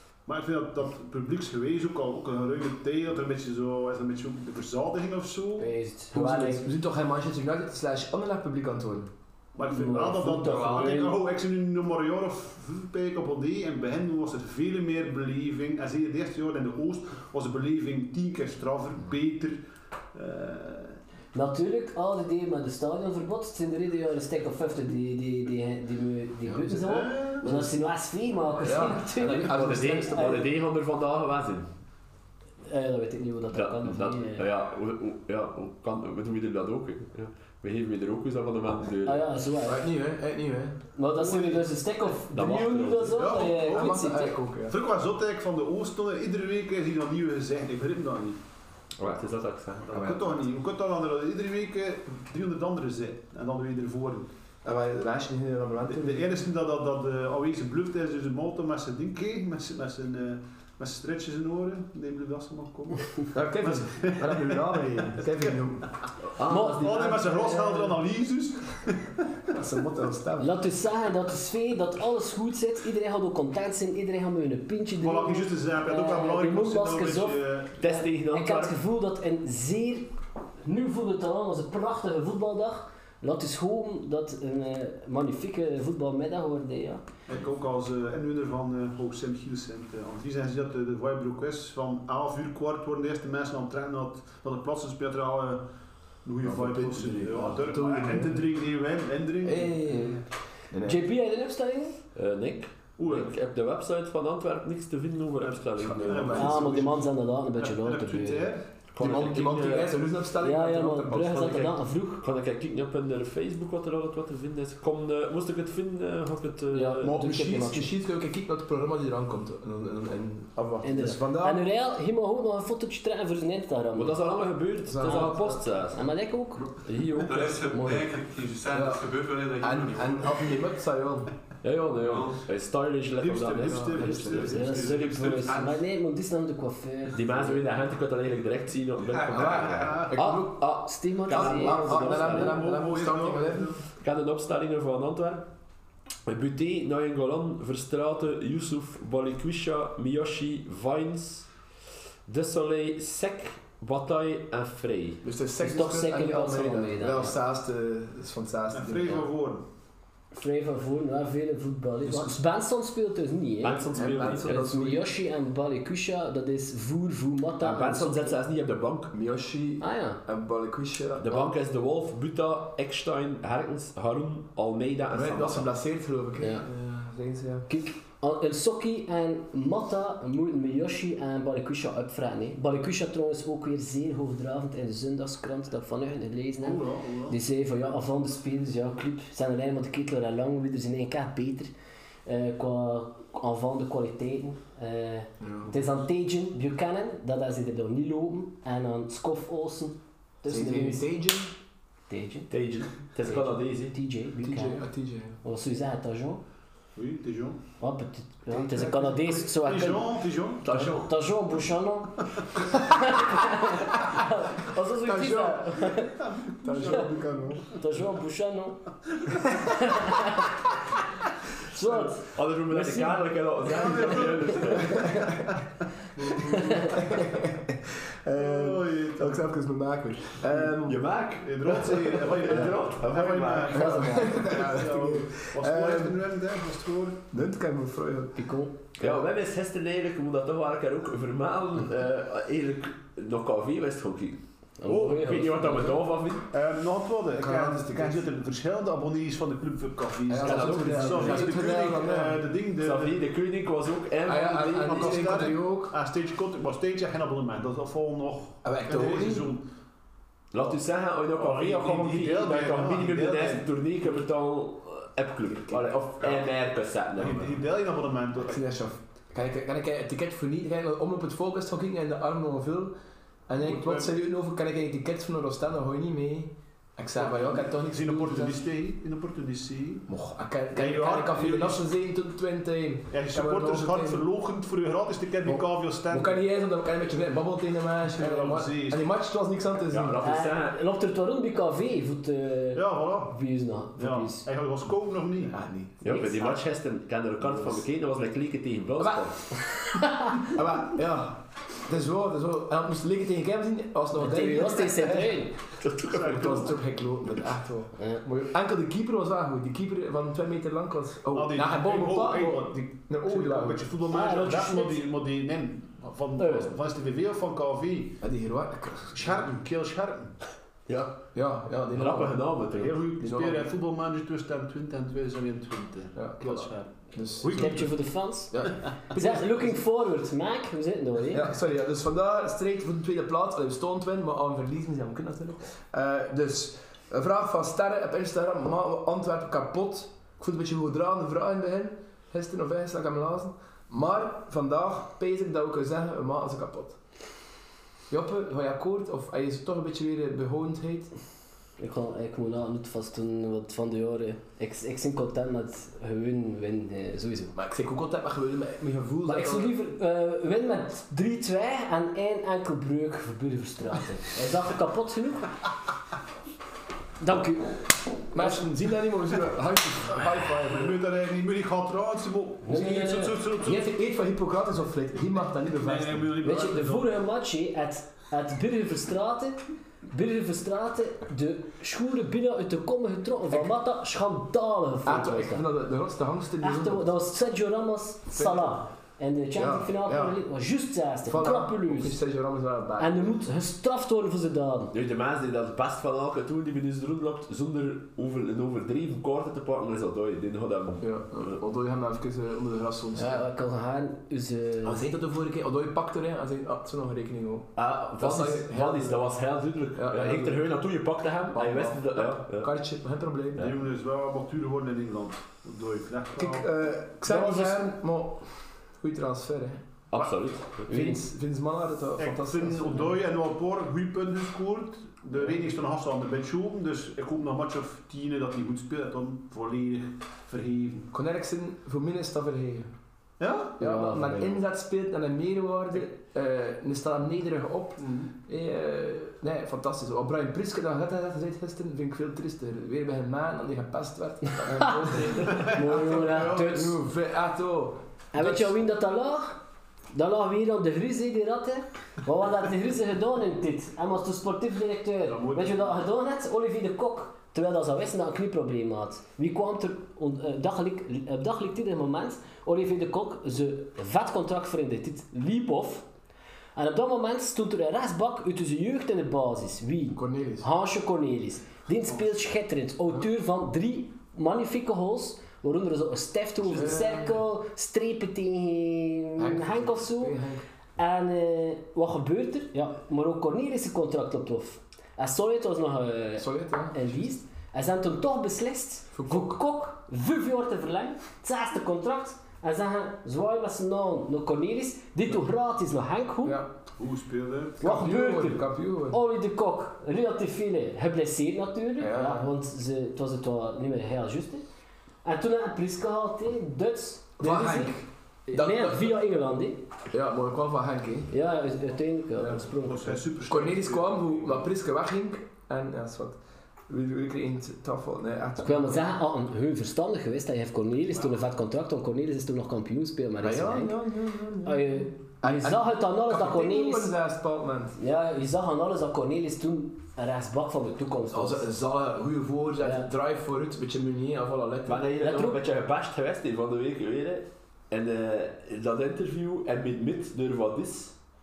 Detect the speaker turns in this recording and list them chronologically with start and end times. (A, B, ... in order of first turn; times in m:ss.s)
0:00.3-0:05.7 A
0:05.6-0:06.7 B
0:06.1-0:09.1 C
0:09.6-0:19.6 A
0:09.6-0:11.2 B
0:10.4-0:11.0 D
0:20.1-0:21.0 A
0:21.3-0:30.5 B
0:26.4-0:26.8 C
0:26.8-0:27.5 A
0:27.4-0:27.7 C
0:28.6-0:30.5 C
0:29.4-0:31.7 E
0:32.6-0:34.5 B
0:33.5-0:39.3 E
0:39.1-0:39.8 B
0:39.6-0:41.6 C
0:41.0-0:44.4 B
0:42.3-0:43.4 E
0:43.2-0:44.1 A
0:43.2-0:44.8 C
0:44.6-0:48.4 A
0:49.0-0:50.0 E
0:49.9-0:54.3 A
0:49.9-0:50.4 C
0:54.6-0:56.4 C
0:55.9-1:05.6 A
1:03.3-1:05.9 C
1:06.4-1:07.0 E
1:06.4-1:08.0 B
1:06.5-1:09.3 A
1:09.5-1:10.6 C
1:10.4-1:27.0 B
1:15.0-1:17.9 A
1:17.8-1:18.8 E
1:27.3-1:35.7 A
1:36.2-1:40.2 A
1:36.4-1:38.5 C
1:39.4-1:41.0 C
1:40.8-1:42.0 B
1:42.2-1:46.5 E
1:43.0-1:43.3 A
1:45.4-1:48.7 A
1:45.8-1:46.8 C
1:46.4-1:48.5 B
1:48.9-1:50.0 E
1:49.0-1:51.7 C
1:50.4-1:52.2 B
1:51.4-1:57.1 E
1:56.7-1:57.9 B
1:57.0-2:01.6 C
2:00.8-2:04.2 B
2:04.0-2:06.1 E
2:04.9-2:05.7 C
2:05.0-2:08.1 B
2:07.0-2:07.6 E
2:07.1-2:10.6 D
2:08.7-2:11.3 C
2:11.6-2:15.4 E
2:12.0-2:12.4 D
2:13.2-2:15.6 A
2:13.6-2:15.0 C
2:14.5-2:17.7 B
2:17.1-2:22.6 E
2:19.2-2:23.8 C
2:19.6-2:20.1 A
2:20.8-2:22.5 B
2:22.0-2:23.8 A
2:24.0-2:25.5 E
2:26.3-2:31.5 E
2:32.3-2:35.2 E
2:35.2-2:39.3 C
2:35.6-2:37.4 B
2:38.7-2:39.6 A
2:40.3-2:48.4 B
2:42.0-2:42.4 C
2:43.6-2:44.7 E
2:43.9-2:45.0 C
2:47.6-2:49.2 E
2:49.1-2:51.5 C
2:49.8-2:50.2 B
2:51.2-2:55.7 E
2:55.1-2:57.7 C
2:56.4-2:56.6 B
2:57.7-3:11.7 B
3:06.6-3:07.4 A
3:12.3-3:21.1 B
3:15.4-3:15.8 C
3:20.5-3:21.5 C
3:22.1-3:22.5 B
3:22.5-3:23.9 E
3:23.2-3:24.9 B
3:24.4-3:25.4 C
3:25.4-3:26.4 B
3:27.0-3:27.6 A
3:27.8-3:32.2 B
3:28.5-3:29.5 C
3:29.6-3:30.7 A
3:30.6-3:31.1 E
3:32.8-3:36.2 B
3:35.0-3:37.7 C
3:36.4-3:37.6 A
3:37.7-3:38.8 B
3:39.7-3:40.5 B
3:41.7-3:43.2 B
3:42.2-3:45.2 E
3:43.7-3:44.9 A
3:44.0-3:44.3 B
3:44.8-3:45.4 C
3:46.2-3:47.1 A
3:46.4-3:47.0 B
3:46.9-3:51.0 C
3:48.4-3:49.4 A
3:50.8-3:54.2 E
3:51.4-3:57.3 A
3:53.7-3:56.2 C
3:53.8-3:54.1 B
3:57.3-3:58.5 C
3:58.4-3:58.8 B
3:59.0-4:06.5 E
4:04.8-4:06.0 B
4:06.5-4:13.2 A
4:07.3-4:08.3 C
4:10.3-4:12.4 C
4:10.4-4:11.6 E
4:12.8-4:15.5 E
4:14.2-4:16.0 C
4:14.8-4:19.7 A
4:18.6-4:19.5 C
4:20.5-4:27.6 E
4:21.4-4:23.7 A
4:25.6-4:25.9 C
4:26.2-4:26.4 A
4:27.2-4:28.6 A
4:28.4-4:32.9 C
4:33.5-4:38.7 C
4:33.6-4:34.1 A
4:37.2-4:40.1 A
4:40.1-4:44.2 C
4:40.7-4:41.8 A
4:43.1-4:46.4 A
4:45.4-4:50.3 C
4:48.1-4:49.0 A
4:49.9-4:50.8 E
4:50.2-4:54.5 B
4:52.8-4:53.4 A
4:54.0-4:55.6 A
4:55.4-4:56.0 C
4:56.0-4:59.6 E
4:56.0-4:56.6 B
4:59.0-4:59.8 C
5:00.0-5:00.4 B
5:00.3-5:05.5 C
5:04.2-5:05.6 B
5:05.8-5:06.7 E
5:06.1-5:06.7 A
5:06.1-5:13.9 C
5:08.0-5:08.2 B
5:11.3-5:18.2 A
5:14.1-5:15.0 B
5:16.4-5:16.7 B
5:18.2-5:19.5 C
5:19.1-5:20.4 A
5:20.9-5:21.2 E
5:21.3-5:22.6 C
5:21.9-5:23.0 E
5:22.7-5:28.0 A
5:23.2-5:23.7 C
5:26.2-5:28.0 C
5:27.5-5:31.5 B
5:28.5-5:29.8 C
5:31.3-5:47.0 C
5:48.1-5:51.1 C
5:51.8-5:57.6 B
5:57.5-5:59.8 C
5:59.3-6:05.5 B
6:07.2-6:07.8 B
6:08.3-6:11.0 C
6:10.7-6:13.9 A
6:12.7-6:13.4 B
6:13.6-6:16.4 C
6:15.8-6:17.1 A
6:16.4-6:25.7 B
6:25.0-6:27.1 C
6:26.6-6:32.2 B
6:28.4-6:28.8 C
6:29.6-6:30.4 C
6:31.2-6:33.4 C
6:33.0-6:34.9 B
6:34.9-6:41.5 E
6:41.0-6:43.4 C
6:43.2-6:45.2 B
6:44.8-6:49.3 C
6:47.8-6:52.7 E
6:50.0-6:50.7 C
6:51.5-6:53.7 C
6:53.6-6:56.7 A
6:56.4-6:59.9 C
6:57.3-6:57.6 B
7:00.1-7:01.2 E
7:00.9-7:03.2 C
7:02.2-7:11.1 A
7:11.1-7:12.9 C
7:13.4-7:13.8 A
7:13.8-7:28.8 C
7:13.8-7:14.6 B
7:18.0-7:18.3 A
7:24.7-7:27.0 B
7:25.5-7:26.6 A
7:28.3-7:29.6 B
7:30.1-7:46.1 B
7:35.3-7:36.0 A
7:46.8-8:00.4 B
7:50.1-7:50.7 C
7:56.7-7:57.4 C
7:59.4-8:00.6 C
8:01.0-8:16.6 B
8:06.4-8:07.3 C
8:09.1-8:09.6 C
8:16.4-8:16.7 C
8:17.0-8:17.8 A
8:17.8-8:19.2 C
8:17.8-8:24.6 B
8:22.0-8:22.5 C
8:25.2-8:29.8 B
8:27.4-8:29.2 C
8:30.1-8:31.3 C
8:31.3-8:33.2 B
8:32.4-8:32.7 C
8:32.8-8:34.7 A
8:33.5-8:39.1 C
8:38.6-8:44.0 B
8:43.4-8:48.0 C
8:44.6-8:47.2 B
8:48.0-8:51.8 B
8:51.3-8:55.5 C
8:52.8-8:53.1 B
8:54.9-9:01.2 E
8:55.2-8:55.6 B